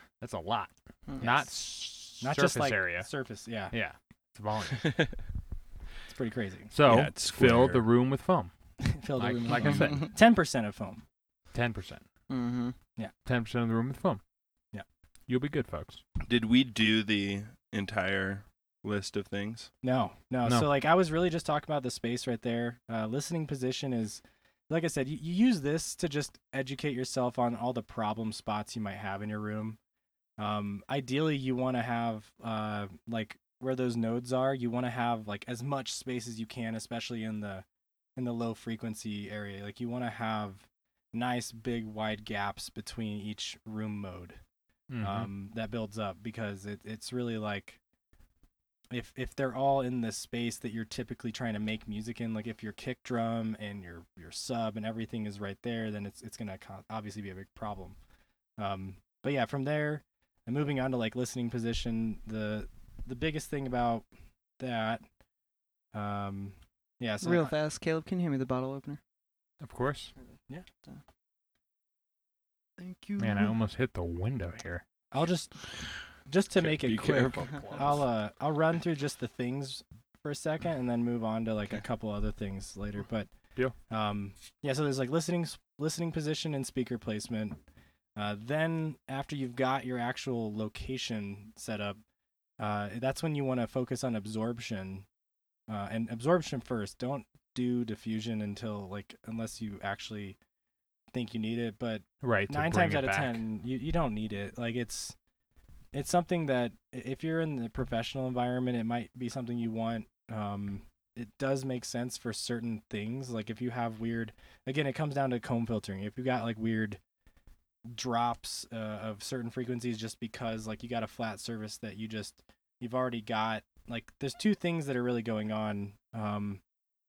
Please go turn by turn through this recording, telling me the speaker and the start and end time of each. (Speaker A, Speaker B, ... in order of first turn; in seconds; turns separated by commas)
Speaker A: 0.2-3.1, Speaker B: 1.2-1.5, Speaker B: 2.2-3.7, Speaker A: 3.7-4.9, Speaker B: 6.1-6.7, Speaker A: 6.7-8.5, Speaker C: 6.8-7.8, Speaker B: 8.8-11.0, Speaker A: 9.2-10.1, Speaker A: 11.5-12.0, Speaker D: 12.3-12.8, Speaker A: 13.2-14.2, Speaker A: 15.3-16.0, Speaker C: 16.2-19.7, Speaker B: 19.8-29.8, Speaker A: 20.4-20.7, Speaker B: 30.4-37.6, Speaker B: 38.1-44.4, Speaker A: 44.9-45.3, Speaker B: 45.0-47.8, Speaker B: 48.9-58.0, Speaker B: 58.6-64.1, Speaker B: 64.6-65.0, Speaker B: 65.9-67.5, Speaker D: 67.2-69.0, Speaker A: 69.6-70.1, Speaker D: 72.8-73.5, Speaker A: 73.2-74.8, Speaker B: 75.1-75.6, Speaker B: 76.2-83.3, Speaker C: 76.5-78.0, Speaker B: 83.9-87.6, Speaker B: 88.2-92.0, Speaker B: 92.6-95.0, Speaker B: 95.7-100.4, Speaker B: 101.1-105.2, Speaker A: 102.2-103.4, Speaker B: 105.9-117.0, Speaker B: 117.9-126.6